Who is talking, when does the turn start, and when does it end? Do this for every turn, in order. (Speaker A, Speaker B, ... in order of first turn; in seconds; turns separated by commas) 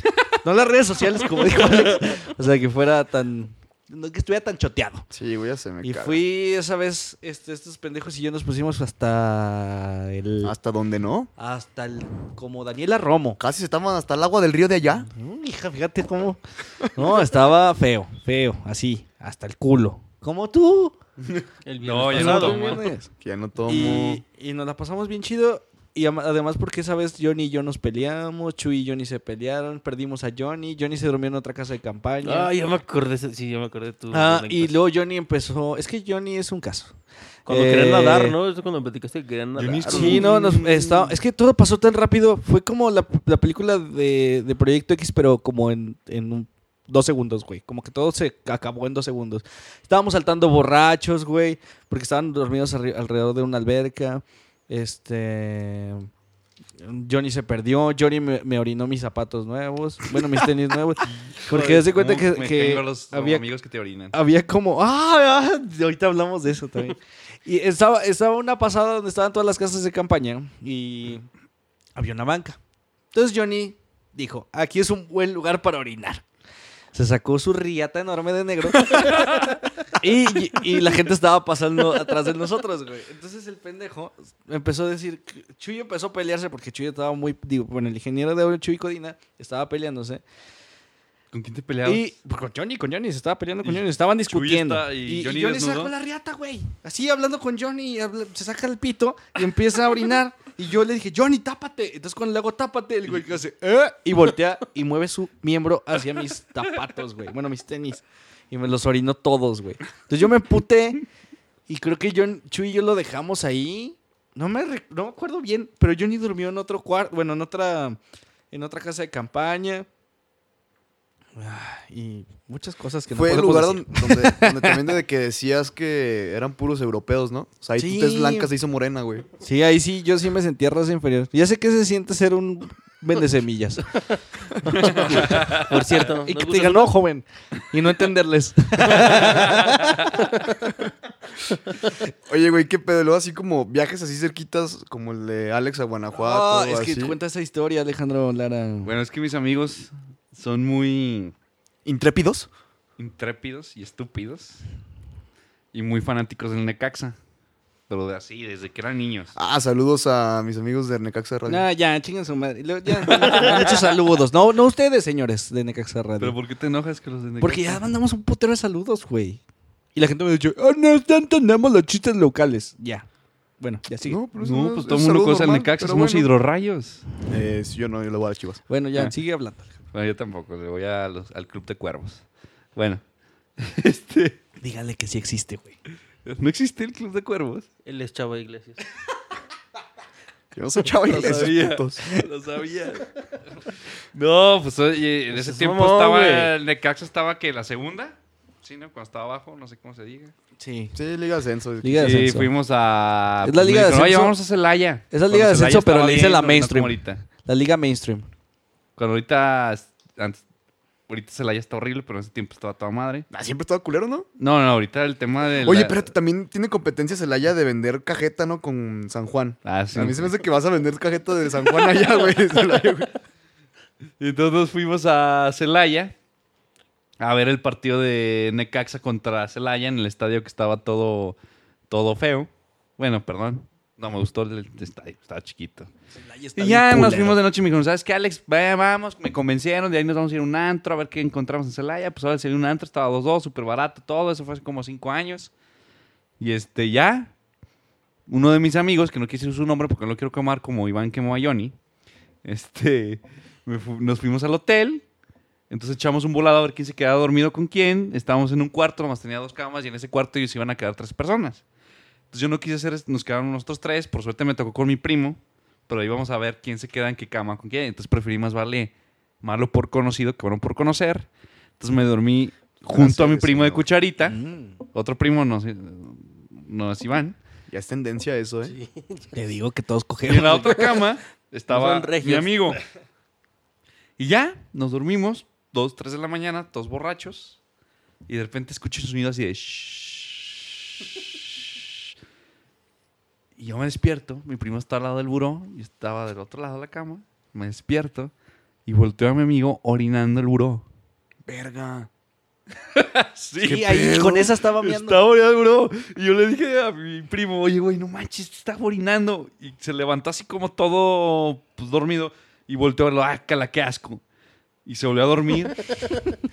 Speaker A: 0.4-5.1, Speaker B: 5.1-6.2, Speaker A: 5.8-10.5, Speaker B: 10.4-11.3, Speaker A: 11.4-13.4, Speaker B: 13.4-15.1, Speaker A: 15.1-16.4, Speaker A: 16.9-20.9, Speaker C: 21.4-22.8, Speaker D: 21.6-22.9, Speaker A: 22.1-23.1, Speaker B: 23.2-24.2, Speaker A: 23.6-32.5, Speaker D: 32.2-34.7, Speaker A: 34.1-36.9, Speaker A: 37.5-38.3, Speaker D: 37.5-40.3, Speaker C: 39.5-41.2, Speaker A: 39.9-56.1, Speaker A: 56.8-63.5, Speaker C: 61.0-64.1, Speaker A: 64.1-71.3, Speaker A: 72.0-72.6, Speaker A: 73.1-76.2, Speaker A: 76.9-90.2, Speaker C: 79.1-79.5, Speaker C: 91.3-92.1, Speaker A: 91.8-111.0, Speaker C: 93.6-95.9, Speaker A: 111.7-118.0, Speaker A: 118.5-119.9, Speaker A: 121.4-124.8, Speaker B: 123.1-129.3, Speaker A: 127.8-128.5, Speaker A: 129.4-133.9, Speaker D: 134.7-136.9, Speaker C: 134.8-135.6, Speaker A: 134.9-140.0, Speaker B: 142.2-147.2, Speaker A: 146.1-148.9, Speaker C: 148.8-151.3, Speaker B: 151.8-152.5, Speaker C: 153.0-154.6, Speaker C: 155.7-157.2, Speaker C: 157.9-159.3, Speaker B: 159.3-161.7, Speaker A: 161.5-166.4, Speaker C: 163.1-163.7, Speaker C: 166.2-167.8, Speaker A: 167.4-169.4, Speaker A: 169.9-173.1, Speaker A: 173.6-174.2, Speaker B: 174.0-176.3, Speaker C: 174.4-177.0, Speaker B: 177.3-178.6, Speaker A: 178.7-179.8, Speaker C: 179.9-183.0, Speaker C: 183.6-184.4, Speaker A: 184.6-185.8, Speaker C: 186.2-187.7, Speaker D: 187.8-188.8, Speaker B: 190.5-192.0, Speaker C: 191.0-193.1, Speaker C: 194.1-200.3, Speaker D: 195.3-196.5, Speaker A: 200.6-200.9, Speaker B: 200.9-202.2, Speaker A: 201.8-202.5, Speaker C: 202.0-207.2, Speaker A: 203.4-204.3, Speaker A: 205.1-208.3, Speaker C: 208.9-210.4, Speaker C: 211.1-213.3, Speaker B: 213.3-214.3, Speaker C: 214.4-216.0, Speaker B: 215.6-223.1, Speaker C: 219.6-220.3, Speaker C: 224.2-226.1, Speaker C: 227.2-231.4, Speaker C: 231.9-235.9, Speaker A: 236.1-237.4, Speaker C: 236.6-245.5, Speaker C: 246.4-247.3, Speaker C: 248.3-251.8, Speaker C: 252.4-255.0, Speaker C: 255.7-261.6, Speaker C: 262.3-274.4, Speaker B: 272.9-273.9, Speaker A: 274.2-274.8, Speaker C: 274.9-277.4, Speaker B: 277.7-278.7, Speaker D: 278.6-279.3, Speaker A: 279.3-280.9, Speaker C: 280.2-282.8, Speaker D: 280.7-281.1, Speaker D: 281.7-282.8, Speaker C: 284.2-287.6, Speaker C: 288.3-290.6, Speaker C: 293.6-298.3, Speaker C: 298.9-300.9, Speaker B: 301.4-302.1, Speaker C: 302.8-314.2, Speaker A: 303.6-305.2, Speaker C: 314.8-316.0